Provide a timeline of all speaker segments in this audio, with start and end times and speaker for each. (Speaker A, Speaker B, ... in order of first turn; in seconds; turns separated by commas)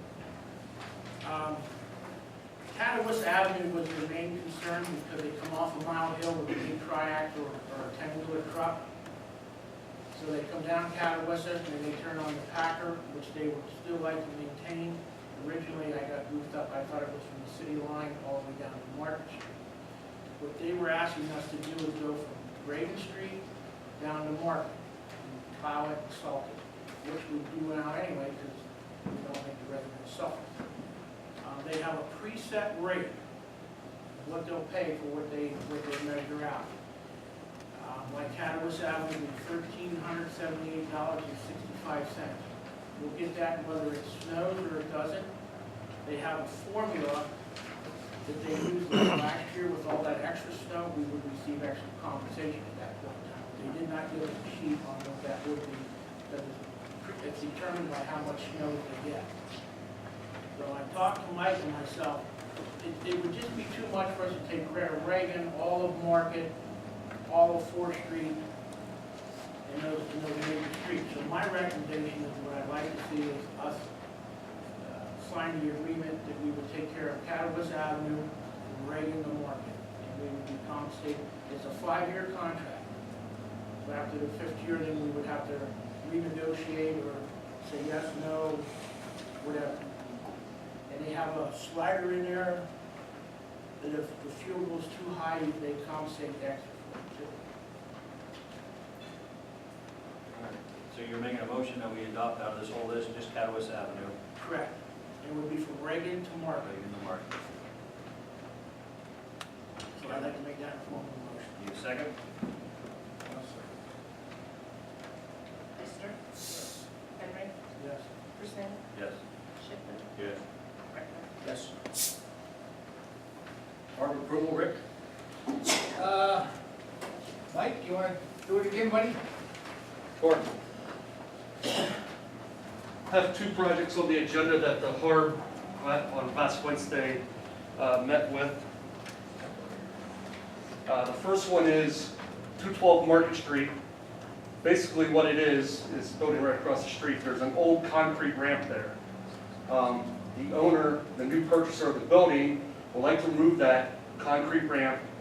Speaker A: 1.2-1.7, Speaker A: 2.7-8.8, Speaker A: 10.1-19.5, Speaker A: 20.4-23.4, Speaker A: 24.0-30.6, Speaker A: 31.4-33.2, Speaker A: 34.1-36.8, Speaker A: 37.7-45.3, Speaker A: 46.0-47.3, Speaker A: 48.2-59.3, Speaker A: 60.5-62.3, Speaker A: 62.8-66.5, Speaker A: 67.3-68.4, Speaker A: 69.6-73.9, Speaker A: 74.8-82.9, Speaker A: 83.8-88.7, Speaker A: 89.4-89.8, Speaker A: 90.9-92.7, Speaker A: 93.8-97.3, Speaker B: 100.9-104.2, Speaker A: 104.4-106.7, Speaker B: 106.6-107.3, Speaker A: 110.0-111.6, Speaker B: 111.6-112.1, Speaker A: 113.2-113.7, Speaker C: 115.8-116.3, Speaker C: 117.2-117.5, Speaker A: 117.8-118.1, Speaker C: 118.4-118.8, Speaker B: 118.9-119.2, Speaker C: 119.6-120.1, Speaker C: 120.9-121.3, Speaker D: 121.4-121.7, Speaker B: 123.9-124.8, Speaker D: 125.9-126.5, Speaker D: 127.5-129.2, Speaker E: 130.2-130.5, Speaker E: 133.1-137.2, Speaker E: 137.8-138.7, Speaker E: 139.4-139.7, Speaker E: 140.9-143.7, Speaker E: 144.6-148.9, Speaker E: 149.7-155.0